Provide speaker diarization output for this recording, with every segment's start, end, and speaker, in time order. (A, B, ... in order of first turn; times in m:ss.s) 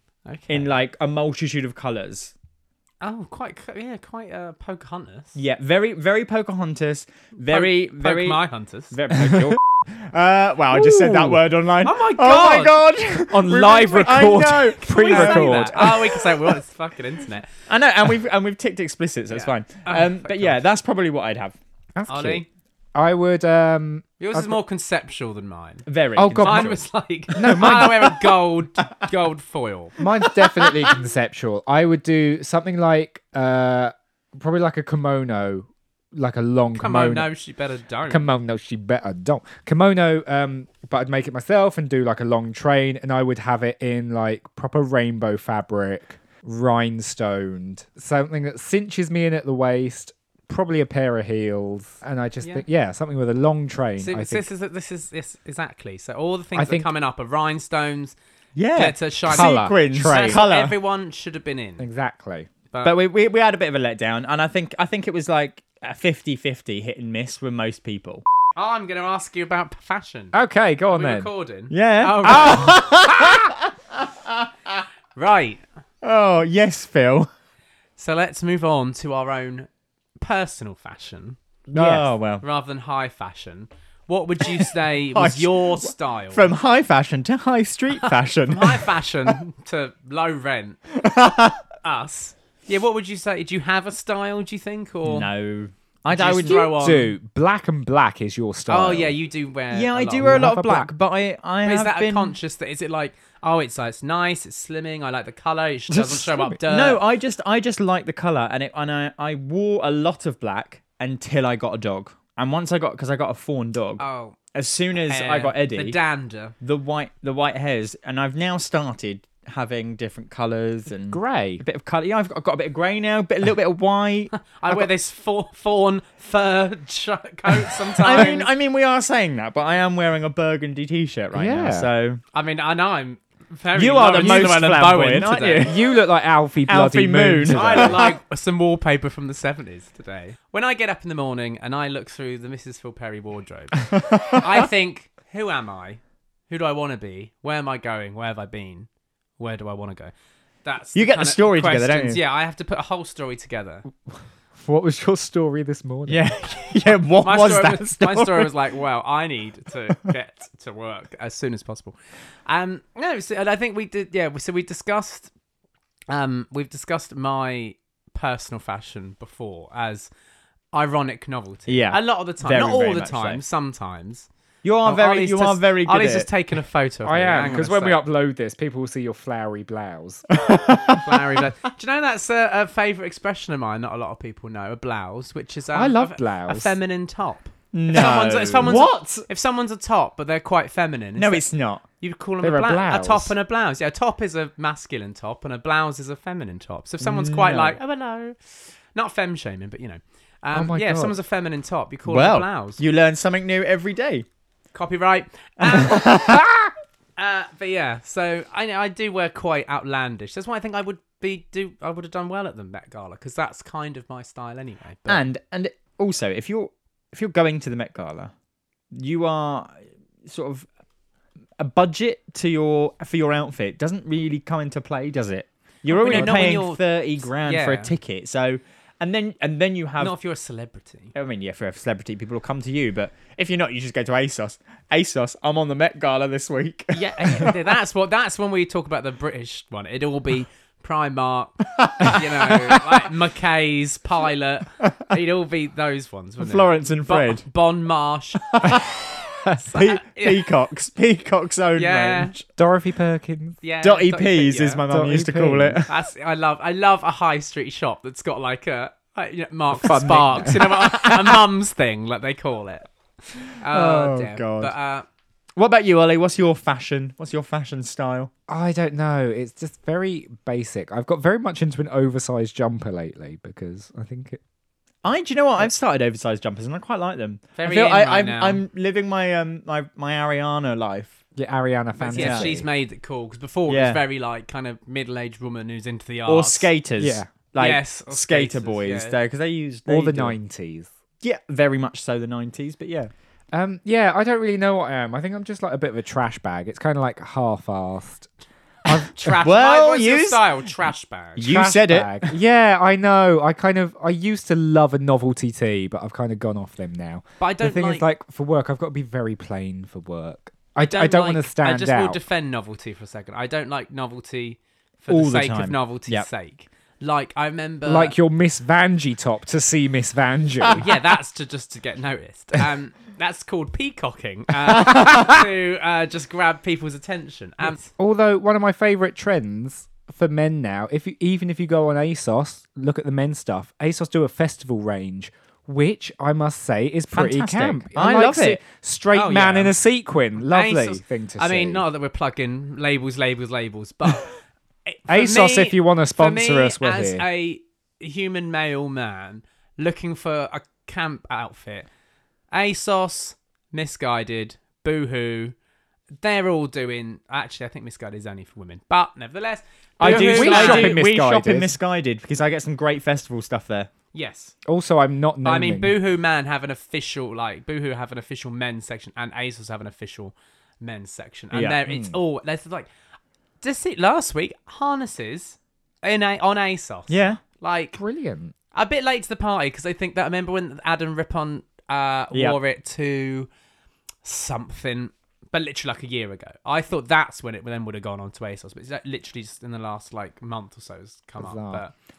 0:00.3-0:00.8 A
0:00.5-0:02.3 B
0:03.0-0:05.4 A
0:05.4-0:16.6 B
0:07.5-0:09.0 A
0:09.2-0:09.6 C
0:10.7-0:11.4 C
0:11.8-0:12.8 A
0:13.3-0:16.0 C
0:14.8-0:17.5 A
0:17.7-0:21.6 B
0:19.3-0:20.6 A
0:22.0-0:22.4 C
0:22.1-0:22.5 A
0:23.0-0:24.6 C
0:24.2-0:25.9 A
0:25.9-0:28.1 B
0:26.2-0:28.1 C
0:26.4-0:30.0 A
0:30.0-0:37.3 C
0:30.2-0:30.7 B
0:36.8-0:38.3 A
0:38.1-0:54.5 C
0:54.0-0:58.2 A
0:56.6-0:56.9 C
0:58.6-1:00.8 B
0:58.8-1:01.8 A
0:59.3-1:00.4 C
1:01.8-1:02.5 C
1:02.8-1:08.2 B
1:08.6-1:10.4 A
1:10.3-1:11.3 C
1:10.9-1:12.8 A
1:11.7-1:14.7 B
1:12.3-1:13.5 C
1:15.2-1:15.6 A
1:16.0-1:17.3 B
1:18.0-1:19.7 A
1:20.2-1:21.4 A
1:21.7-1:22.4 B
1:21.7-1:22.1 C
1:22.4-1:26.5 A
1:25.1-1:29.3 B
1:28.0-1:30.8 A
1:31.0-1:31.6 B
1:31.8-1:35.3 A
1:35.0-1:36.7 B
1:36.1-1:37.1 A
1:36.5-1:39.2 C
1:38.7-1:40.5 A
1:39.7-1:42.4 B
1:40.2-1:40.9 C
1:41.6-1:47.0 A
1:45.9-1:56.0 B
1:54.0-1:54.4 A
1:55.1-1:56.5 A
1:56.6-2:04.8 B
2:01.1-2:01.6 C
2:04.5-2:08.5 A
2:08.0-2:12.2 B
2:11.3-2:11.9 C
2:12.3-2:15.7 A
2:13.8-2:15.8 B
2:15.6-2:18.0 C
2:16.7-2:18.1 B
2:17.5-2:28.9 A
2:23.9-2:24.6 B
2:29.4-2:30.1 A
2:30.6-2:33.9 A
2:31.0-2:32.2 B
2:34.6-2:36.2 C
2:36.1-2:38.5 B
2:37.2-2:45.3 A
2:46.1-2:50.1 A
2:50.7-2:54.3 A
2:51.7-2:53.4 B
2:54.6-2:56.3 B
2:54.8-2:58.0 A
2:57.1-3:00.4 C
3:00.3-3:01.2 B
3:01.0-3:11.4 A
3:05.7-3:06.8 C
3:07.7-3:09.2 B
3:11.2-3:11.8 B
3:12.0-3:18.4 A
3:12.4-3:13.3 C
3:17.0-3:17.8 B
3:18.9-3:22.8 A
3:20.5-3:21.2 C
3:22.1-3:24.3 B
3:24.7-3:26.4 A
3:25.6-3:26.7 B
3:27.2-3:35.2 A
3:35.1-3:38.3 B
3:38.9-3:40.7 B
3:41.6-3:50.2 B
3:45.9-3:47.9 A
3:46.1-3:46.5 C
3:50.0-3:51.1 A
3:51.2-3:57.5 B
3:56.9-4:08.8 A
4:01.8-4:02.8 B
4:06.4-4:07.4 B
4:08.5-4:12.5 B
4:09.6-4:10.5 A
4:11.8-4:12.4 A
4:12.6-4:13.6 C
4:13.6-4:14.8 A
4:13.8-4:15.9 B
4:14.9-4:15.9 C
4:15.9-4:22.9 A
4:19.7-4:21.2 C
4:23.6-4:25.1 A
4:23.7-4:24.7 B
4:25.6-4:28.3 B
4:28.5-4:34.4 C
4:35.0-4:41.2 B
4:37.6-4:38.6 A
4:41.4-4:42.6 C
4:42.0-4:46.7 A
4:42.1-4:42.5 B
4:43.7-4:44.0 B
4:46.3-4:50.4 B
4:47.0-4:47.3 C
4:47.6-4:49.2 A
4:49.9-4:50.9 C
4:51.2-4:53.1 B
4:53.5-4:58.3 C
4:58.9-5:01.5 A
4:59.4-5:00.5 B
5:01.4-5:02.4 B
5:01.4-5:12.2 C
5:07.4-5:08.1 A
5:10.9-5:18.2 A
5:15.1-5:16.3 B
5:17.8-5:20.8 C
5:20.7-5:27.9 A
5:27.8-5:41.8 C
5:37.1-5:38.6 B
5:39.1-5:39.8 A
5:40.4-5:44.3 A
5:44.9-5:51.9 A
5:45.1-5:47.2 C
5:52.5-5:55.6 A
5:56.2-6:01.0 A
6:00.0-6:03.9 B
6:00.0-6:01.8 C
6:04.1-6:04.5 A
6:04.7-6:06.0 C
6:05.4-6:12.9 A
6:11.5-6:11.8 B
6:11.9-6:12.2 C
6:13.6-6:18.0 A
6:17.1-6:17.4 B
6:18.0-6:18.5 C
6:18.7-6:23.5 A
6:24.2-6:31.9 A
6:31.4-6:31.8 C